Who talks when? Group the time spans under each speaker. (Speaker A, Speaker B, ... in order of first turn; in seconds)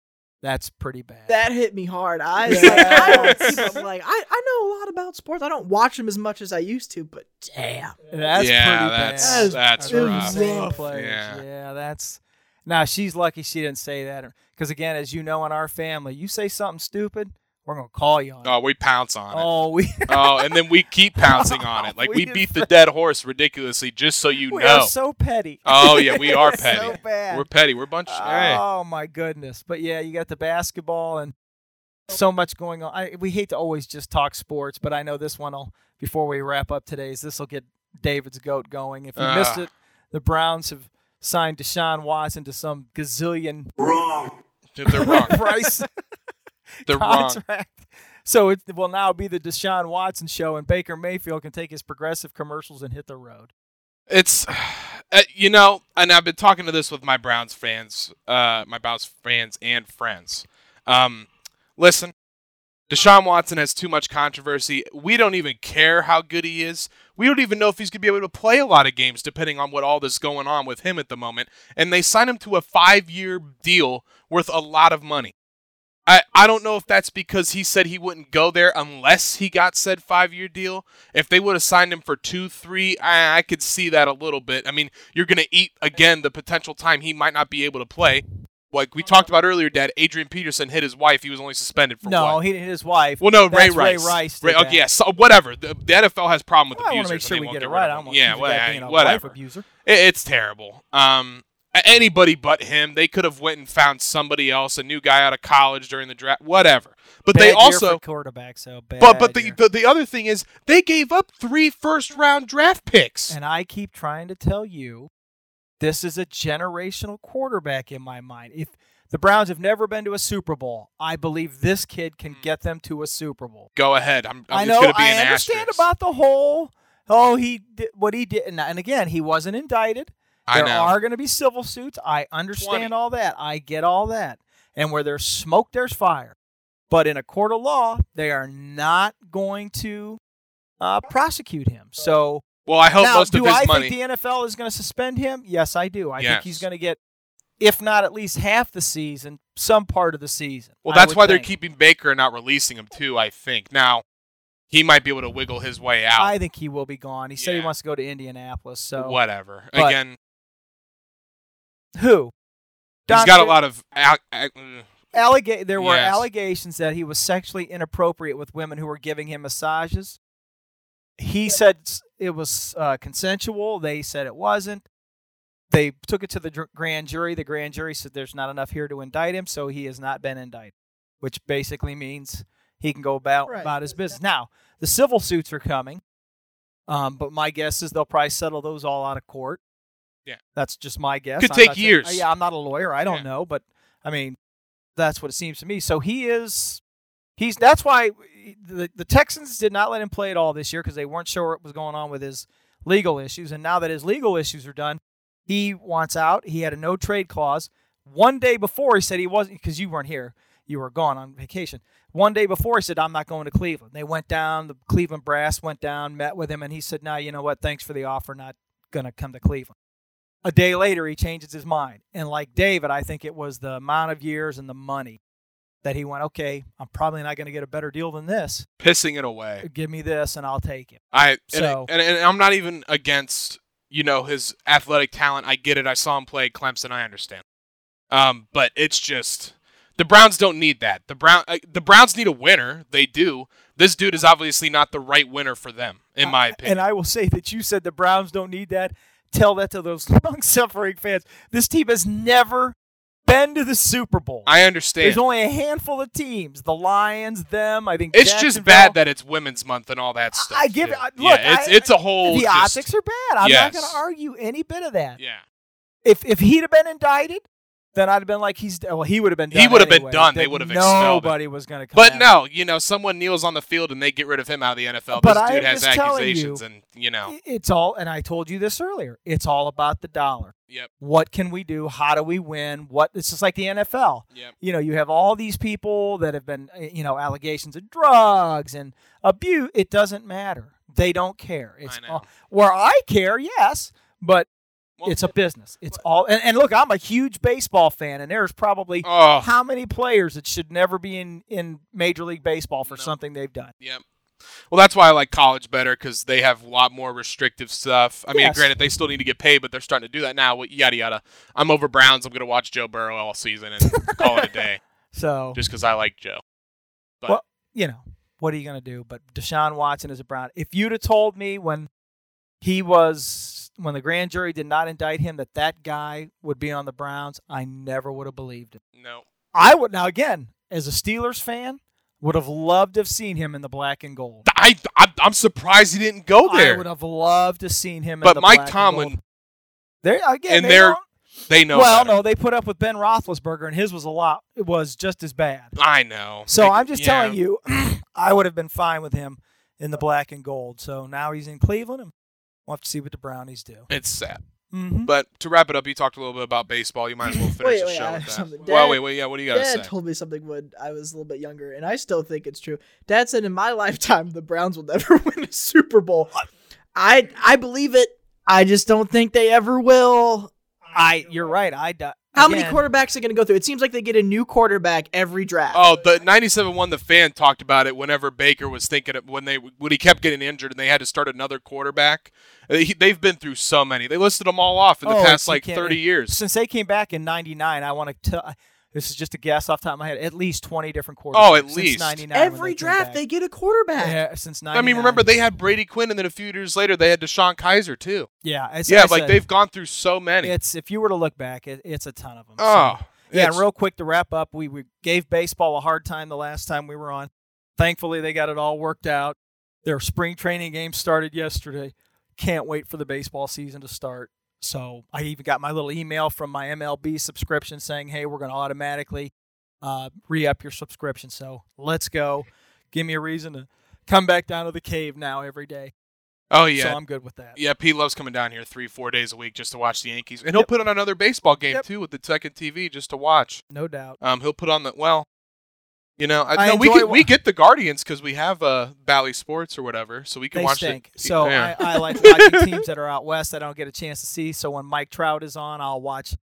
Speaker A: 0.4-1.4, 2.4-3.6, 8.1-18.6, 19.3-20.5, 21.2-22.7, 24.5-27.5, 28.1-31.3, 32.1-44.1, 44.9-45.9, 46.8-53.5, 92.0-94.8, 96.7-99.6, 107.3-109.6, 113.3-115.1, 115.8-123.7, 124.5-136.3, 136.9-140.2, 140.8-142.4, 143.0-147.0, 147.6-151.5, 156.2-159.2, 161.9-162.3, 163.1-163.6, 165.1-170.2, 171.2-174.8, 175.7-186.0, 186.9-189.6, 190.5-194.4, 194.9-196.8, 197.4-219.7, 220.4-225.2, 225.8-228.7, 229.6-231.9, 246.2-252.7, 253.2-259.0, 260.3-265.2, 266.0-267.4, 267.9-272.3, 275.1-276.6, 277.2-294.5, 295.0-303.7, 308.3-308.7, 313.8-314.5, 315.1-315.6, 317.3-321.9, 322.6-328.8, 329.5-334.4, 336.4-339.2, 340.0-341.0, 341.7-345.7, 346.5-352.1, 352.7-353.9, 354.7-355.1, 370.9-372.8, 385.0-393.2, 394.0-395.2, 398.4-399.4, 400.4-425.9, 426.7-427.6, 433.7-434.2, 436.6-437.3, 440.5-446.4
Speaker B: 1.3-8.0, 9.2-10.8, 183.5-183.7, 357.4-366.4, 366.9-370.5, 372.3-375.8, 392.3-394.2
Speaker C: 2.5-3.7, 8.3-11.4, 18.4-19.5, 20.1-24.9, 25.6-28.6, 39.1-39.6, 44.7-45.4, 46.9-47.4, 54.1-62.1, 62.9-75.3, 76.0-92.4, 93.2-108.0, 109.0-113.3, 123.7-125.8, 130.5-130.9, 132.5-132.9, 142.7-143.9, 146.2-146.6, 150.8-154.0, 154.7-156.3, 157.4-157.7, 159.0-160.2, 163.1-165.0, 165.8-166.2, 191.4-192.2, 228.8-229.6, 231.1-237.4, 238.1-246.8, 254.4-255.2, 258.1-262.9, 263.4-264.0, 265.2-265.4, 269.5-271.4, 271.9-277.3, 291.9-292.2, 295.0-295.2, 299.0-299.5, 304.7-314.8, 315.5-316.4, 328.9-329.2, 334.4-336.8, 338.2-339.2, 340.5-342.1, 345.8-347.4, 353.9-354.4, 355.1-359.9, 375.7-386.4, 391.3-392.2, 394.7-398.3, 398.9-400.5, 402.6-403.6, 426.5-427.0, 427.6-433.6, 434.2-435.3, 436.2-442.8